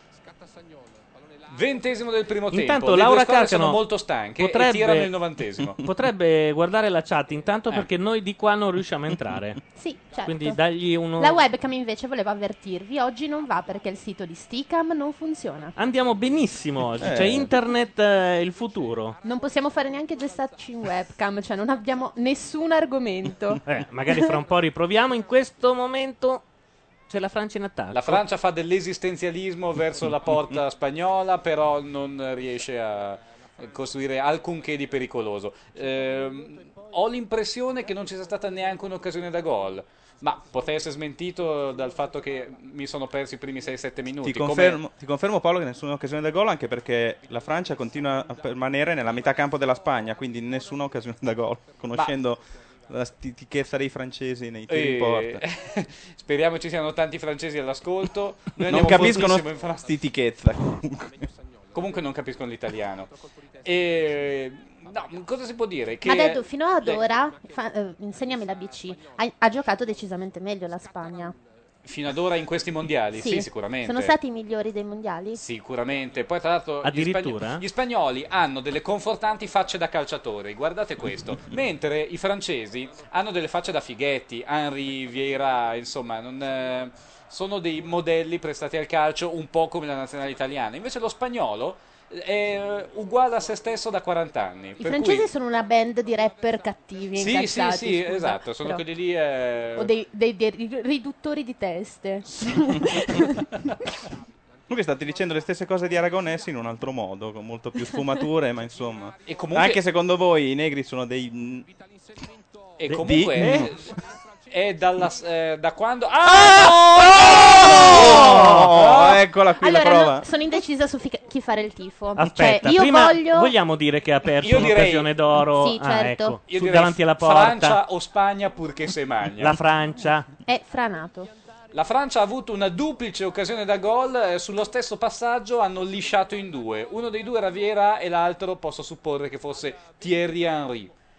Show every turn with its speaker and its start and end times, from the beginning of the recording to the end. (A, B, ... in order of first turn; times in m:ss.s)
0:01.5-0:05.8 A
0:02.5-0:03.8 B
0:04.4-0:05.1 B
0:05.8-0:09.6 B
0:09.8-0:10.6 C
0:10.2-0:11.4 B
0:11.2-0:15.8 C
0:15.8-0:19.2 B
0:17.0-0:17.5 D
0:19.2-0:24.3 C
0:23.6-0:26.4 B
0:27.1-0:28.2 B
0:27.9-0:44.8 A
0:44.2-0:55.4 D
0:54.7-0:59.9 A
0:58.6-1:01.3 D
1:01.7-1:03.1 A
1:03.6-1:07.0 A
1:06.0-1:11.3 C
1:11.8-1:14.1 A
1:13.2-1:15.4 C
1:15.3-1:35.3 A
1:16.8-1:17.6 B
1:34.8-1:38.8 C
1:37.2-1:39.9 A
1:39.8-1:43.4 C
1:44.7-1:51.7 D
1:49.3-1:49.8 A
1:52.8-1:53.9 A
1:52.9-1:53.7 B
1:52.9-1:53.8 D
1:54.5-1:59.2 A
1:56.3-2:00.2 D
1:58.1-1:58.6 B
1:59.6-2:03.5 C
2:02.2-2:07.8 B
2:04.4-2:05.1 A
2:05.5-2:06.4 C
2:06.5-2:09.6 A
2:09.4-2:10.3 B
2:10.4-2:11.3 C
2:11.7-2:20.9 A